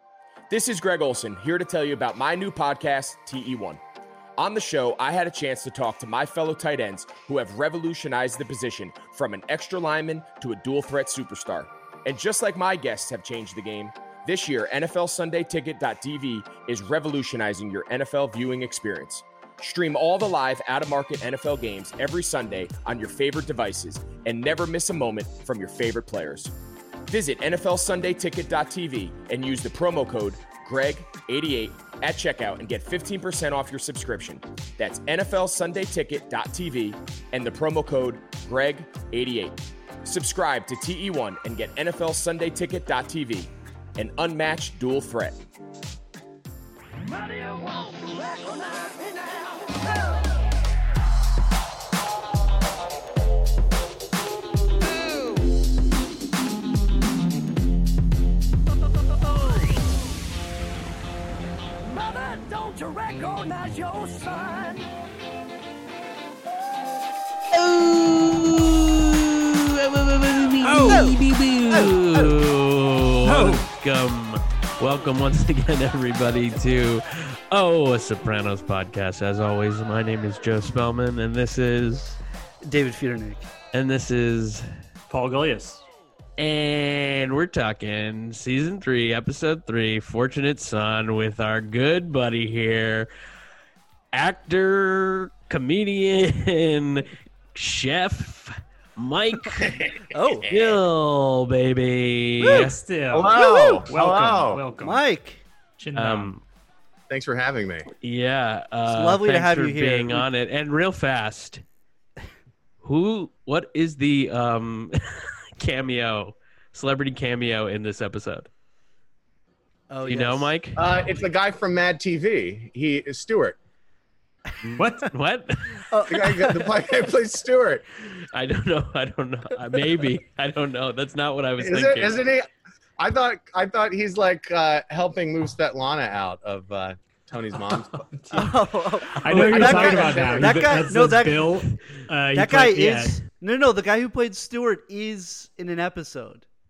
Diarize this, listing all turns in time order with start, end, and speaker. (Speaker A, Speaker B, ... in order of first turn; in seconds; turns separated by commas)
Speaker A: 0.5-3.8, Speaker A: 4.4-26.5, Speaker A: 27.1-45.4, Speaker B: 47.1-50.3, Speaker B: 54.9-55.4, Speaker B: 61.9-64.9, Speaker C: 67.5-82.2, Speaker D: 70.6-71.2, Speaker E: 70.8-72.3, Speaker D: 73.2-73.7, Speaker E: 82.6-83.5, Speaker C: 83.7-84.7, Speaker D: 85.1-85.8, Speaker C: 86.4-93.1, Speaker C: 94.1-99.9, Speaker F: 99.6-100.8, Speaker E: 100.1-100.5, Speaker C: 100.5-102.8, Speaker D: 102.4-105.0, Speaker F: 102.5-104.6, Speaker E: 103.3-103.8, Speaker E: 104.8-105.4, Speaker D: 105.8-106.3, Speaker C: 106.0-106.4, Speaker F: 107.1-107.9, Speaker C: 108.0-111.6, Speaker E: 108.9-110.2, Speaker C: 112.8-118.5, Speaker E: 119.9-120.5, Speaker C: 120.1-120.8, Speaker F: 120.8-123.6, Speaker C: 124.6-125.9, Speaker D: 124.8-125.1, Speaker E: 125.9-126.7, Speaker F: 126.1-127.9, Speaker C: 128.0-132.2, Speaker F: 131.6-132.5, Speaker F: 133.0-138.1, Speaker D: 138.0-143.2, Speaker E: 138.3-141.5, Speaker F: 139.3-140.7, Speaker E: 142.3-146.4